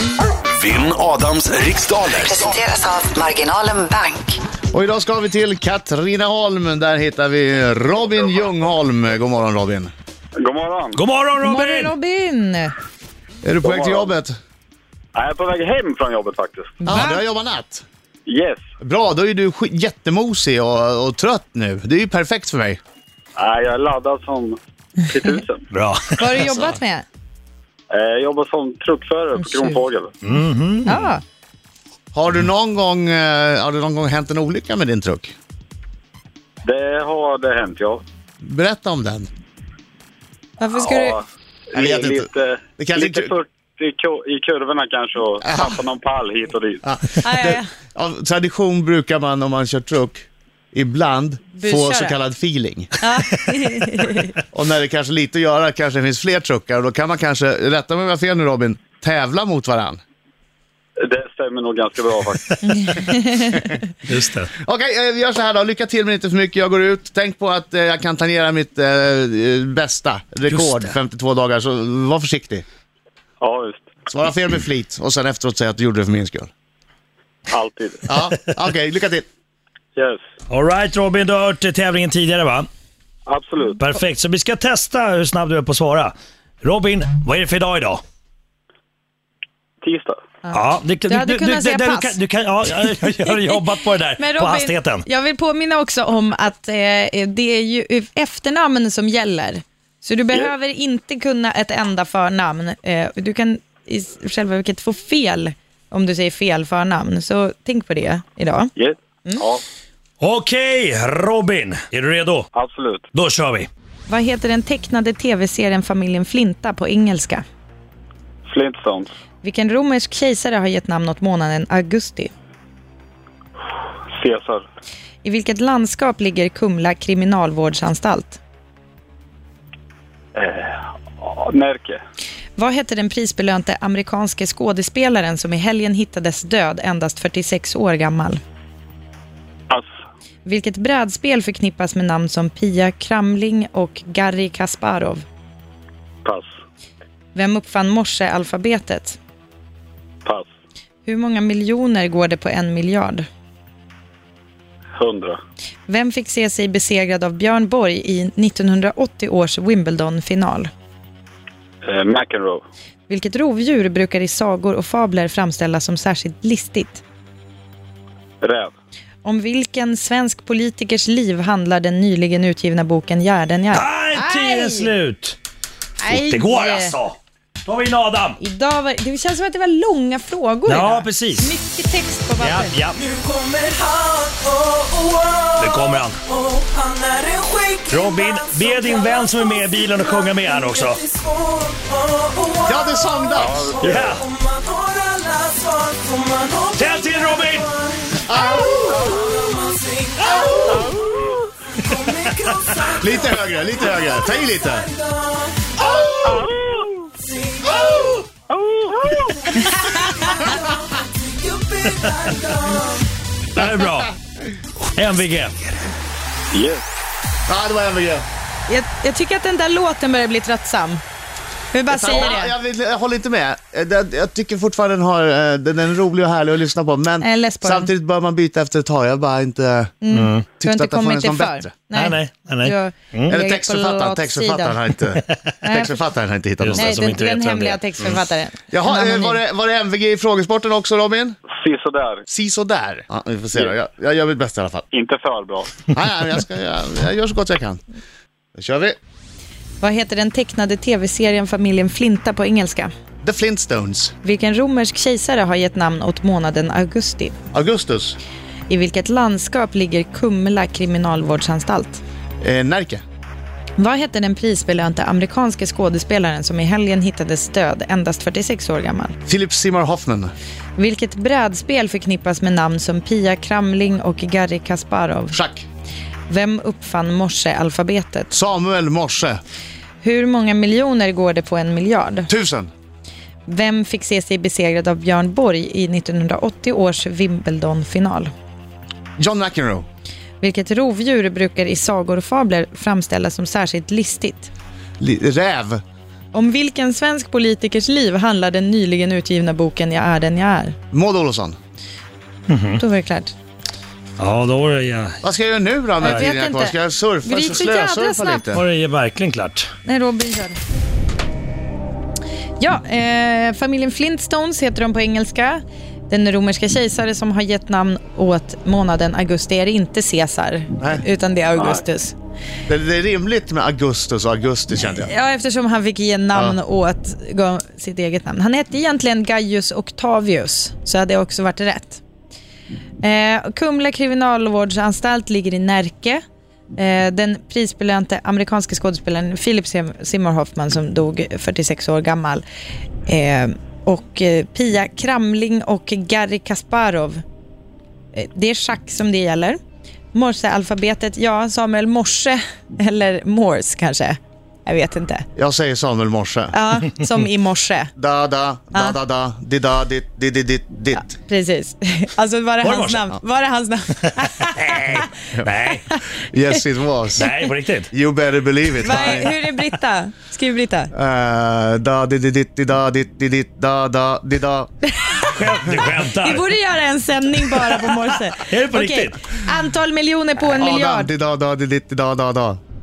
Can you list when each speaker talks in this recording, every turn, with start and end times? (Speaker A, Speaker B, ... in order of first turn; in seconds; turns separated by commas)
Speaker A: 0.5-2.7, Speaker B: 2.2-4.4, Speaker C: 4.7-9.9, Speaker D: 10.4-11.0, Speaker E: 10.9-11.9, Speaker F: 11.4-12.7, Speaker C: 13.4-14.4, Speaker D: 13.6-14.1, Speaker D: 15.2-16.8, Speaker F: 16.8-17.2, Speaker C: 16.9-17.8, Speaker D: 18.3-18.6, Speaker C: 18.8-22.8, Speaker D: 23.4-25.6, Speaker E: 25.7-26.8, Speaker F: 26.2-27.1, Speaker D: 27.9-30.1, Speaker F: 29.4-29.8, Speaker E: 30.2-31.1, Speaker F: 30.9-31.2, Speaker C: 32.1-35.3, Speaker D: 36.6-38.0, Speaker C: 38.4-39.3, Speaker F: 40.6-41.2, Speaker D: 40.8-46.8, Speaker C: 41.8-43.3, Speaker C: 45.4-45.8, Speaker C: 46.8-52.9, Speaker F: 47.2-47.7, Speaker F: 51.5-52.2, Speaker F: 53.0-54.3, Speaker C: 54.5-60.0, Speaker D: 61.0-62.6, Speaker E: 62.5-62.8, Speaker F: 62.7-63.7, Speaker E: 64.1-64.5, Speaker C: 64.6-72.6, Speaker E: 70.5-71.0, Speaker D: 73.4-73.9, Speaker C: 74.1-76.5, Speaker D: 77.5-78.1, Speaker C: 78.1-79.3, Speaker E: 80.5-82.7, Speaker D: 83.3-83.8, Speaker E: 83.8-88.0, Speaker D: 89.8-90.2, Speaker F: 90.4-92.2, Speaker E: 90.5-95.1, Speaker F: 94.2-108.7, Speaker D: 108.8-109.6, Speaker E: 110.2-112.5, Speaker D: 112.5-113.0, Speaker E: 113.1-113.7, Speaker F: 114.1-117.4, Speaker D: 118.5-119.1, Speaker F: 119.4-122.3, Speaker D: 124.2-124.7, Speaker F: 125.2-128.4, Speaker D: 130.4-132.0, Speaker F: 132.6-138.4, Speaker F: 140.4-145.3, Speaker F: 147.3-149.2, Speaker F: 151.0-153.3, Speaker D: 155.0-155.4, Speaker F: 155.9-160.7, Speaker D: 161.8-162.6, Speaker F: 163.1-167.0, Speaker D: 168.4-168.7, Speaker F: 169.2-174.9, Speaker E: 173.7-175.4, Speaker F: 176.0-177.0, Speaker E: 176.1-178.4, Speaker F: 178.4-182.8, Speaker E: 180.7-181.5, Speaker E: 182.4-183.0, Speaker G: 183.0-206.4, Speaker E: 185.6-186.2, Speaker E: 187.9-191.0, Speaker C: 192.7-193.7, Speaker D: 193.3-194.2, Speaker E: 193.8-194.3, Speaker E: 196.8-197.7, Speaker C: 198.2-199.2, Speaker D: 200.7-201.3, Speaker C: 203.0-204.9, Speaker D: 206.2-207.1, Speaker G: 207.2-208.3, Speaker D: 208.5-209.6, Speaker G: 209.6-213.1, Speaker F: 209.6-210.5, Speaker E: 213.5-214.1, Speaker E: 214.8-215.8, Speaker D: 216.5-216.8, Speaker C: 217.5-218.3, Speaker F: 218.7-221.0, Speaker F: 221.7-222.6, Speaker C: 221.9-230.0, Speaker F: 227.2-227.9, Speaker F: 230.0-234.9, Speaker E: 230.1-230.5, Speaker C: 230.6-231.7, Speaker E: 231.9-233.3, Speaker C: 233.3-236.9, Speaker F: 235.6-236.0, Speaker E: 236.6-238.2, Speaker F: 236.8-239.4, Speaker C: 238.7-241.4, Speaker D: 241.5-242.2, Speaker C: 242.3-244.9, Speaker D: 244.9-245.9, Speaker C: 245.9-247.8, Speaker C: 248.6-249.0, Speaker F: 249.8-252.9, Speaker C: 253.2-254.2, Speaker F: 254.2-257.4, Speaker C: 257.5-258.2, Speaker F: 258.7-262.0, Speaker C: 262.4-263.0, Speaker F: 263.8-269.2, Speaker C: 269.3-270.3, Speaker F: 270.8-275.4, Speaker C: 275.3-275.7, Speaker F: 276.3-278.3, Speaker C: 278.3-279.4, Speaker F: 280.0-282.3, Speaker C: 282.3-282.7, Speaker F: 283.5-288.3, Speaker C: 289.2-289.9, Speaker F: 290.4-294.5, Speaker C: 295.0-295.8, Speaker F: 296.3-300.8, Speaker C: 300.9-301.6, Speaker E: 302.5-302.8, Speaker F: 302.8-303.3, Speaker E: 304.2-305.2, Speaker C: 305.2-308.7, Speaker F: 306.0-308.5, Speaker E: 306.0-306.3, Speaker E: 308.5-309.7, Speaker F: 309.9-310.6, Speaker F: 312.6-322.1, Speaker D: 321.6-321.8, Speaker C: 322.7-325.1, Speaker F: 324.9-332.0, Speaker F: 333.0-336.2, Speaker F: 336.8-342.4, Speaker F: 343.1-347.2, Speaker F: 348.1-349.6, Speaker F: 350.1-355.3, Speaker C: 355.4-356.6, Speaker F: 356.5-357.9, Speaker C: 358.0-361.1, Speaker F: 358.7-359.0, Speaker F: 360.9-365.1, Speaker E: 362.6-363.1, Speaker E: 364.6-365.9, Speaker F: 365.9-366.6, Speaker C: 366.3-367.3, Speaker E: 367.2-367.9, Speaker C: 367.9-369.3, Speaker F: 368.8-370.9, Speaker E: 368.9-369.4, Speaker C: 370.9-374.7, Speaker F: 375.0-375.3, Speaker E: 375.3-376.5, Speaker F: 376.2-381.1, Speaker E: 377.5-379.2, Speaker C: 380.5-382.6